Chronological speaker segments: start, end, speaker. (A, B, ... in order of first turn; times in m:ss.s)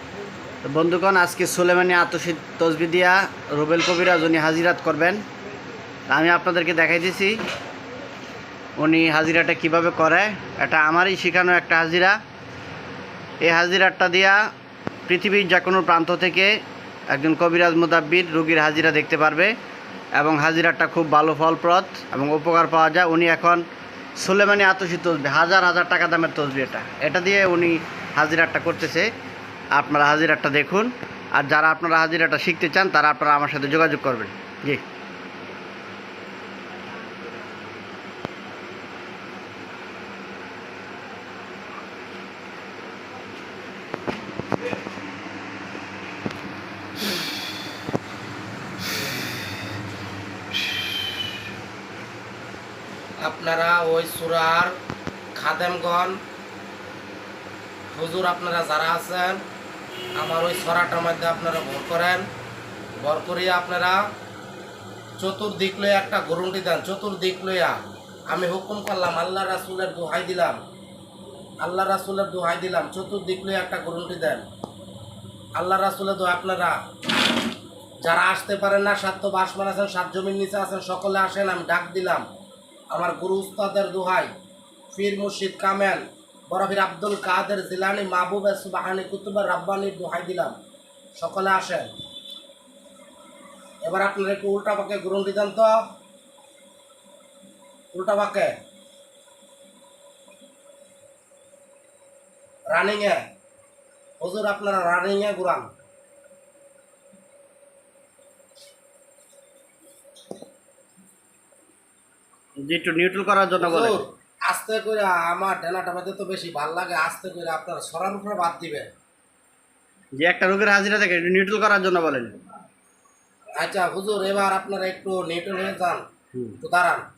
0:00.6-0:05.2 A
0:06.1-0:07.4 A
0:08.8-0:12.2 A
0:13.4-0:14.4 A
0:15.1-0:16.6 A
0:17.1-0:19.6 A
0:20.1-0:23.7 A
0:24.2-0:29.1 A
0:29.7-0:34.8 A
0:53.2-0:54.8 B
0:55.3-0:56.2 B
0:57.9-0:59.4 B
1:00.2-1:02.2 B
1:03.0-1:04.0 B
1:05.2-1:07.8 B
1:08.3-1:10.6 B
1:11.6-1:14.4 B
1:15.6-1:16.8 B
1:18.0-1:22.2 B
1:22.9-1:24.3 B
1:24.9-1:30.6 B
1:31.2-1:31.9 B
1:33.8-1:35.8 B
1:37.9-1:38.5 B
1:42.7-1:43.2 B
1:44.2-1:45.7 B
1:52.6-1:54.0 A
1:53.6-1:58.9 B
2:00.2-2:02.4 A
2:03.6-2:06.0 B
2:06.6-2:07.0 B